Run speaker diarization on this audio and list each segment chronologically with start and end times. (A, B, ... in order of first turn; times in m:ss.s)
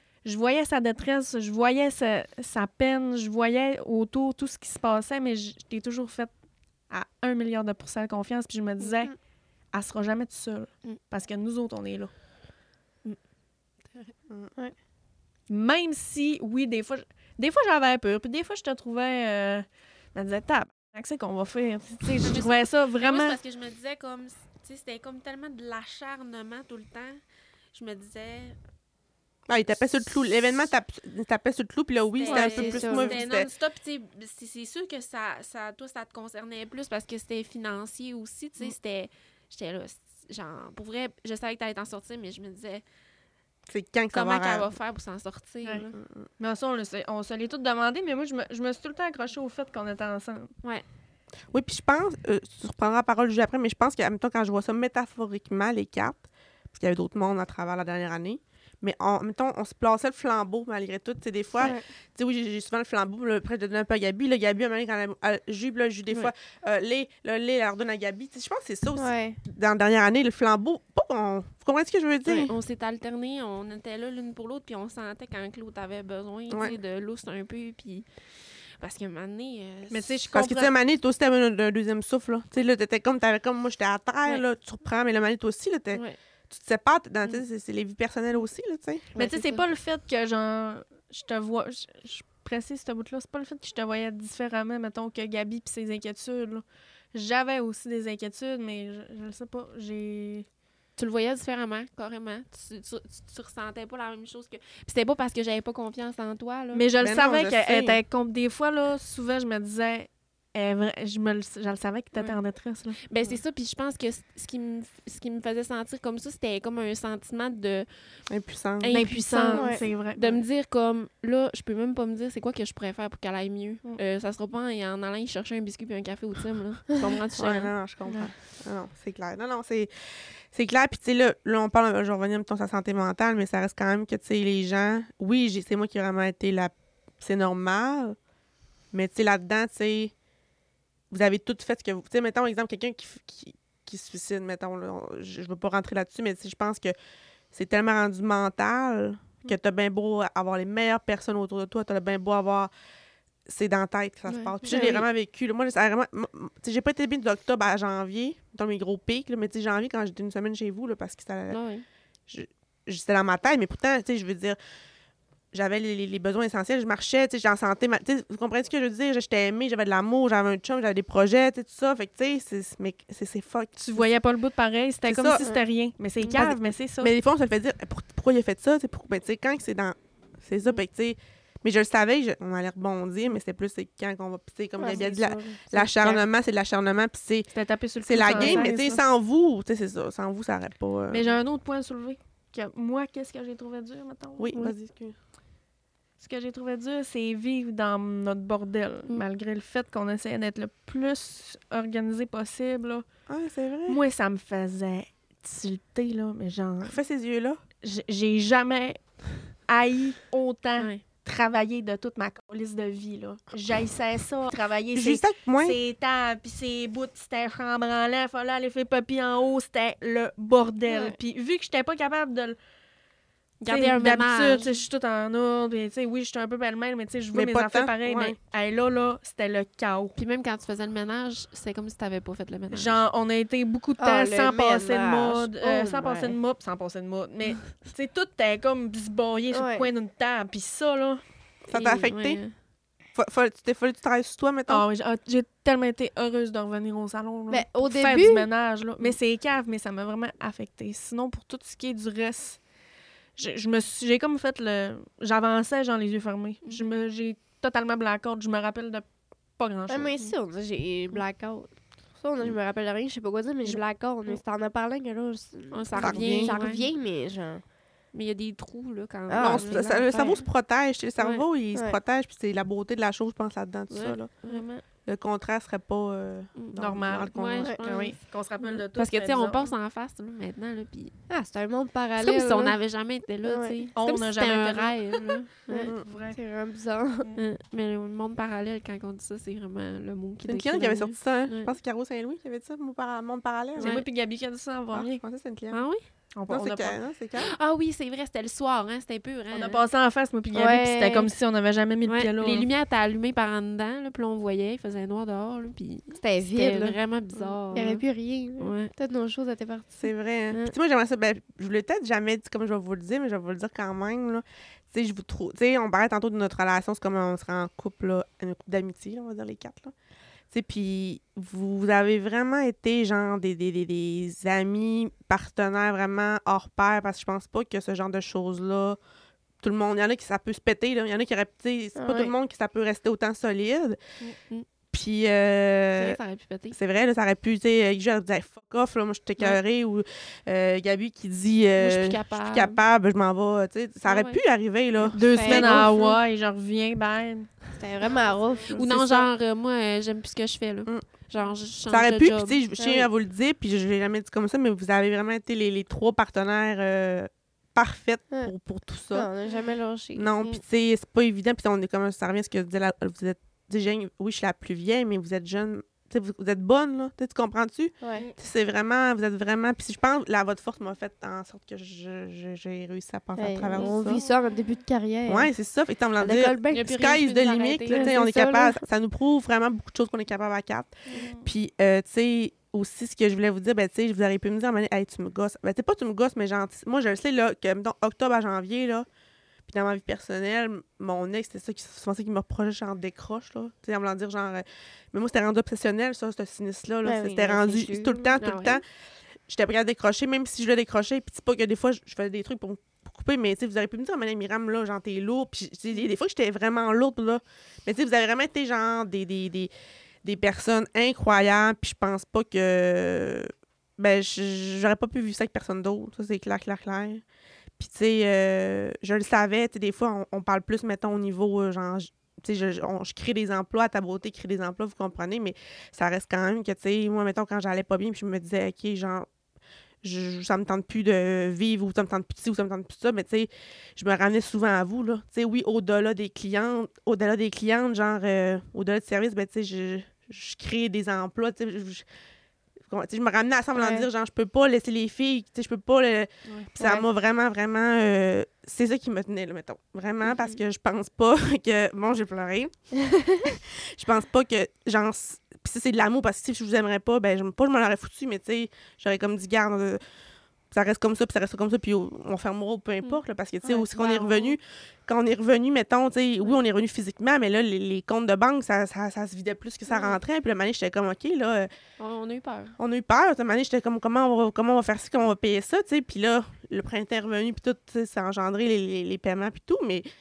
0:00.2-0:06.3 A
0:06.9-0:09.2 A
0:09.7-0:12.1 A
0:15.5-0:23.4 A
0:22.2-0:27.2 B
0:27.7-0:28.6 B
0:29.5-0:33.5 C
0:32.2-0:42.8 B
0:32.3-0:33.2 D
0:43.7-0:44.7 C
0:44.1-0:45.9 B
0:45.9-0:46.2 C
0:46.4-0:50.5 A
0:51.5-1:12.5 C
1:09.0-1:09.4 D
1:12.3-1:20.2 B
1:16.5-1:16.8 C
1:19.9-1:20.7 A
1:20.3-1:29.1 C
1:29.1-1:29.6 B
1:29.1-1:40.4 A
1:41.0-1:46.8 B
1:46.7-1:53.0 A
1:47.0-1:48.0 C
1:52.1-1:52.4 B
1:53.0-1:57.9 B
1:58.3-1:58.9 C
1:58.8-2:07.7 B
1:58.9-2:00.4 A
1:59.5-1:59.8 D
2:07.0-2:09.9 C
2:10.5-2:18.2 C
2:18.9-2:20.1 C
2:21.1-2:26.9 C
2:27.5-2:32.7 C
2:33.4-2:41.6 C
2:34.3-2:34.6 B
2:34.7-2:35.0 D
2:41.5-2:41.8 B
2:42.3-2:44.6 C
2:45.5-2:54.1 C
2:53.8-2:57.1 A
2:55.0-2:55.4 C
2:56.3-3:07.5 C
3:04.8-3:05.6 D
3:04.8-3:06.2 A
3:07.5-3:09.0 A
3:08.0-3:11.4 C
3:11.1-3:14.5 A
3:14.4-3:15.2 C
3:16.2-3:23.0 A
3:23.3-3:24.0 C
3:23.9-3:27.0 A
3:26.8-3:27.6 C
3:27.8-3:42.6 A
3:34.9-3:35.8 C
3:40.9-3:41.2 D
3:43.6-3:44.7 B
3:43.7-3:50.2 A
3:47.3-3:48.4 C
3:50.2-3:53.0 B
3:52.7-4:01.2 A
3:54.0-3:56.4 D
3:59.5-3:59.9 D
4:01.6-4:02.4 C
4:01.7-4:02.5 B
4:03.1-4:04.9 C
4:04.7-4:12.6 A
4:07.5-4:08.5 D
4:13.4-4:19.0 A
4:19.6-4:20.1 A
4:19.9-4:27.6 D
4:25.7-4:26.9 B
4:26.0-4:26.6 C
4:28.1-4:30.5 B
4:29.3-4:29.9 D
4:29.4-4:34.3 C
4:31.2-4:31.4 B
4:33.9-4:34.8 B
4:35.0-4:37.7 C
4:36.6-4:41.1 B
4:36.8-4:39.7 A
4:37.6-4:38.2 D
4:41.3-4:42.7 D
4:42.2-4:45.9 B
4:43.4-4:43.8 D
4:43.9-4:46.4 A
4:45.7-4:47.3 D
4:47.3-4:51.7 B
4:50.4-4:54.0 C
4:53.8-4:55.2 A
4:53.8-4:54.1 B
4:54.9-4:55.8 C
4:55.7-4:56.0 B
4:56.3-4:57.0 A
4:56.5-4:57.5 C
4:57.4-4:59.8 B
4:59.5-5:02.7 A
5:00.5-5:01.3 D
5:02.0-5:08.0 B
5:06.1-5:07.0 D
5:07.7-5:10.1 D
5:08.6-5:08.9 B
5:10.0-5:19.9 C
5:20.5-5:29.0 C
5:29.6-5:34.0 C
5:32.0-5:32.3 D
5:34.9-5:36.2 C
5:36.0-5:36.8 B
5:36.7-5:45.9 C
5:41.8-5:42.8 B
5:44.0-5:44.4 B
5:45.1-5:47.7 A
5:45.2-5:46.1 D
5:45.4-5:46.1 B
5:47.8-5:48.9 D
5:48.7-5:52.6 B
5:48.7-5:49.3 C
5:51.9-5:59.3 C
5:52.8-5:53.1 D
5:59.1-6:00.6 D
6:00.1-6:14.2 C
6:13.4-6:15.5 D
6:13.7-6:14.8 A
6:15.2-6:29.1 C
6:16.2-6:16.9 D
6:16.7-6:18.2 B
6:17.9-6:18.8 D
6:21.1-6:21.5 A
6:29.6-6:38.8 C
6:37.0-6:38.4 D
6:38.4-6:38.8 B
6:39.5-6:49.7 C
6:50.2-6:57.2 C
6:57.8-7:09.3 C
7:10.0-7:22.0 C
7:22.9-7:32.9 C
7:23.7-7:24.1 D
7:26.8-7:27.0 D
7:33.4-7:40.0 C
7:40.7-7:51.7 C
7:43.0-7:44.6 B
7:49.9-7:50.2 B
7:52.0-7:52.8 B
7:52.8-8:00.0 C